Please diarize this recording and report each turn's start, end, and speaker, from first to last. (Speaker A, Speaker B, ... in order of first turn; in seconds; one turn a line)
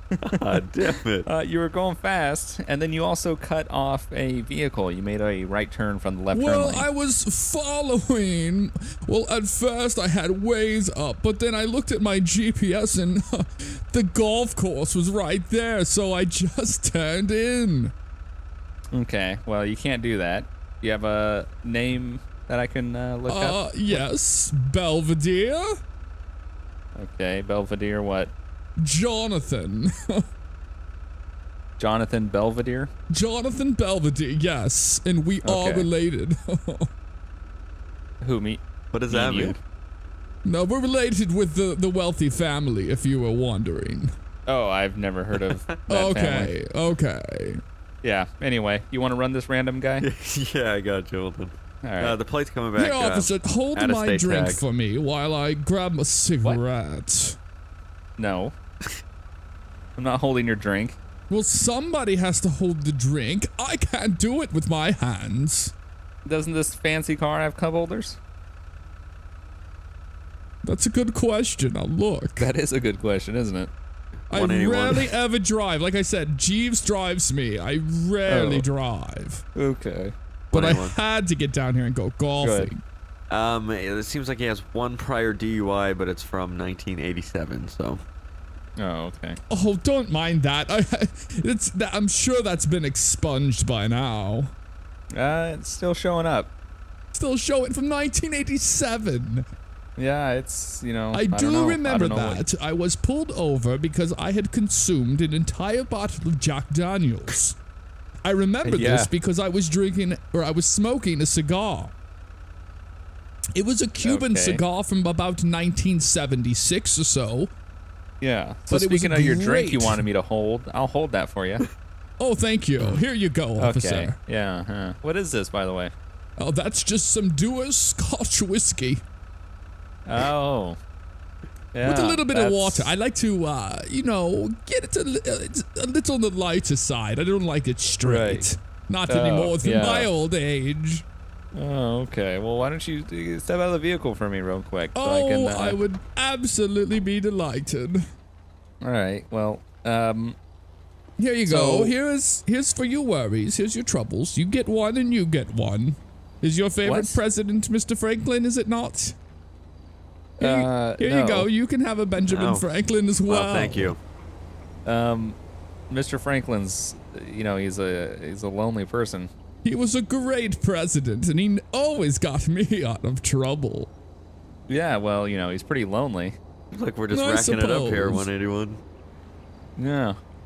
Speaker A: 0.3-1.3
Speaker B: 1.2-6.9
Speaker C: 6.3-17.9
Speaker B: 18.9-24.1
Speaker C: 23.3-25.7
Speaker B: 27.0-28.3
Speaker C: 28.8-30.2
Speaker B: 31.8-32.9
Speaker C: 33.1-36.9
Speaker B: 35.4-35.9
Speaker B: 38.2-39.6
Speaker A: 38.9-39.6
Speaker C: 40.5-44.1
Speaker B: 44.5-46.5
Speaker A: 45.3-45.8
Speaker C: 45.9-47.6
Speaker B: 48.0-50.0
Speaker A: 50.0-54.6
Speaker B: 51.8-52.2
Speaker C: 52.8-57.4
Speaker B: 58.2-58.5
Speaker B: 60.0-61.0
Speaker C: 61.3-65.7
Speaker B: 66.2-68.2
Speaker C: 70.6-72.5
Speaker B: 72.4-73.7
Speaker A: 74.3-75.1
Speaker C: 74.3-79.4
Speaker B: 78.3-78.7
Speaker B: 79.5-80.1
Speaker A: 80.5-81.0
Speaker C: 80.5-82.8
Speaker B: 82.4-82.7
Speaker A: 83.3-88.0
Speaker B: 88.8-89.4
Speaker C: 89.5-94.5
Speaker B: 95.1-96.5
Speaker C: 97.1-99.5
Speaker B: 100.0-102.4
Speaker C: 101.1-107.6
Speaker C: 108.2-111.9
Speaker B: 108.7-109.1
Speaker C: 113.5-117.5
Speaker B: 114.0-114.6
Speaker B: 118.2-121.7
Speaker C: 118.7-120.0
Speaker C: 122.2-124.2
Speaker B: 123.6-125.9
Speaker C: 126.4-129.0
Speaker B: 130.1-130.8
Speaker B: 131.7-132.9
Speaker C: 131.8-141.1
Speaker B: 138.0-138.5
Speaker B: 139.1-140.1
Speaker B: 141.5-145.8
Speaker C: 144.9-148.0
Speaker B: 148.8-150.4
Speaker C: 151.2-159.2
Speaker B: 151.5-151.9
Speaker B: 156.8-157.2
Speaker B: 160.4-161.5
Speaker C: 160.4-163.9
Speaker A: 162.2-162.7
Speaker A: 163.3-164.0
Speaker B: 164.8-165.4
Speaker B: 165.9-169.3
Speaker C: 169.6-173.9
Speaker B: 174.7-176.4
Speaker A: 176.7-178.8
Speaker C: 177.1-178.3
Speaker B: 179.8-180.2